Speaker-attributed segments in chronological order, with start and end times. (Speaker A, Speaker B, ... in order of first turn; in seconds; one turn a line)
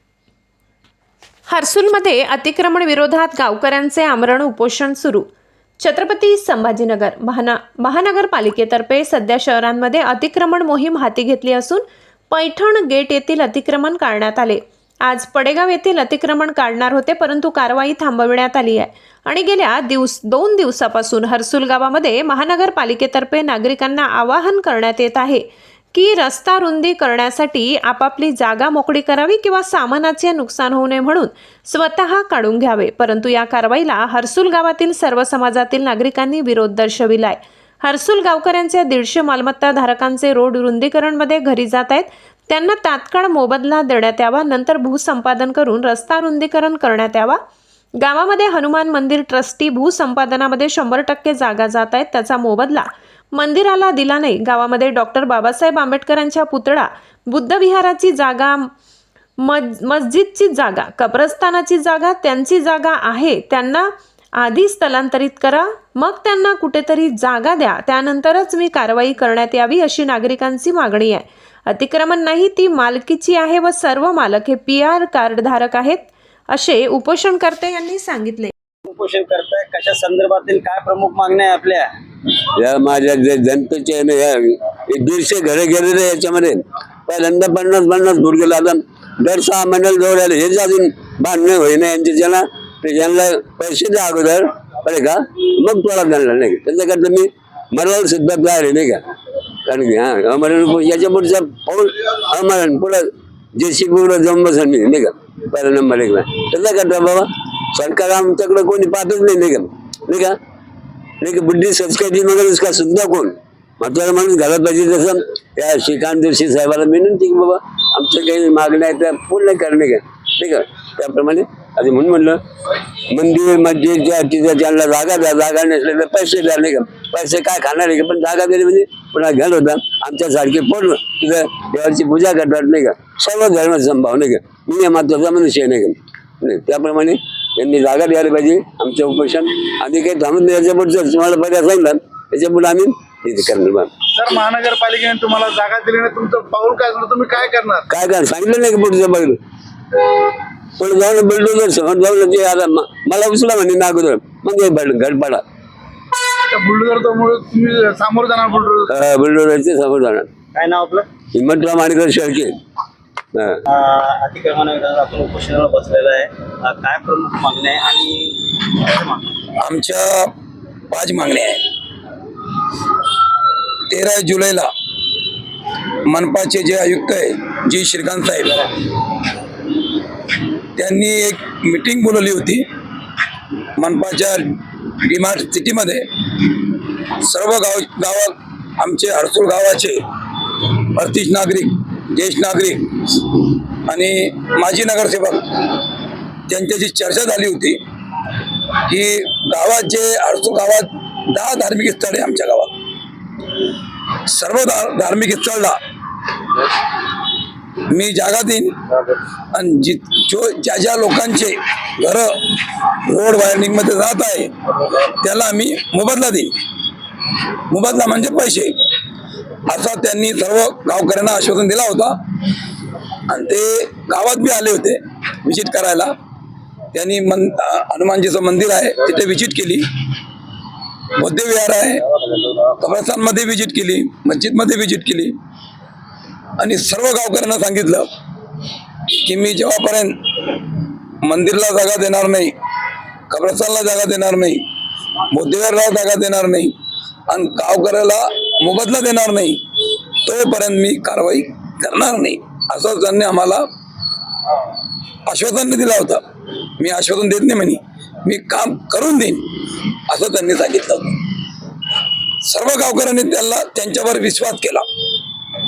Speaker A: 1.5-5.2
Speaker A: 5.8-47.4
Speaker A: 48.0-58.7
Speaker A: 59.4-78.5
Speaker B: 78.9-81.9
Speaker C: 82.5-99.0
Speaker C: 99.7-110.3
Speaker C: 111.2-122.4
Speaker C: 123.1-143.9
Speaker D: 144.1-147.8
Speaker C: 147.9-149.4
Speaker C: 150.8-155.4
Speaker D: 156.5-158.9
Speaker C: 158.9-160.3
Speaker B: 160.5-161.1
Speaker C: 161.3-162.5
Speaker B: 163.7-169.3
Speaker E: 169.6-170.3
Speaker E: 170.9-171.6
Speaker E: 173.9-174.7
Speaker E: 176.1-178.7
Speaker E: 180.8-182.6
Speaker E: 183.8-184.4
Speaker E: 185.0-186.5
Speaker E: 187.2-190.0
Speaker E: 190.9-193.2
Speaker E: 193.9-195.4
Speaker E: 196.5-197.8
Speaker E: 198.9-202.7
Speaker E: 204.3-205.8
Speaker E: 207.9-208.7
Speaker E: 209.5-214.5
Speaker E: 215.0-216.5
Speaker E: 217.7-218.7
Speaker E: 219.7-222.1
Speaker E: 223.3-226.1
Speaker E: 226.9-229.8
Speaker E: 231.2-232.0
Speaker E: 232.8-235.3
Speaker E: 236.6-238.1
Speaker E: 239.2-240.1
Speaker E: 241.2-242.5
Speaker E: 243.3-244.6
Speaker E: 245.3-246.7
Speaker E: 247.3-253.6
Speaker E: 255.3-256.2
Speaker E: 256.8-259.4
Speaker E: 260.1-261.1
Speaker E: 262.4-264.8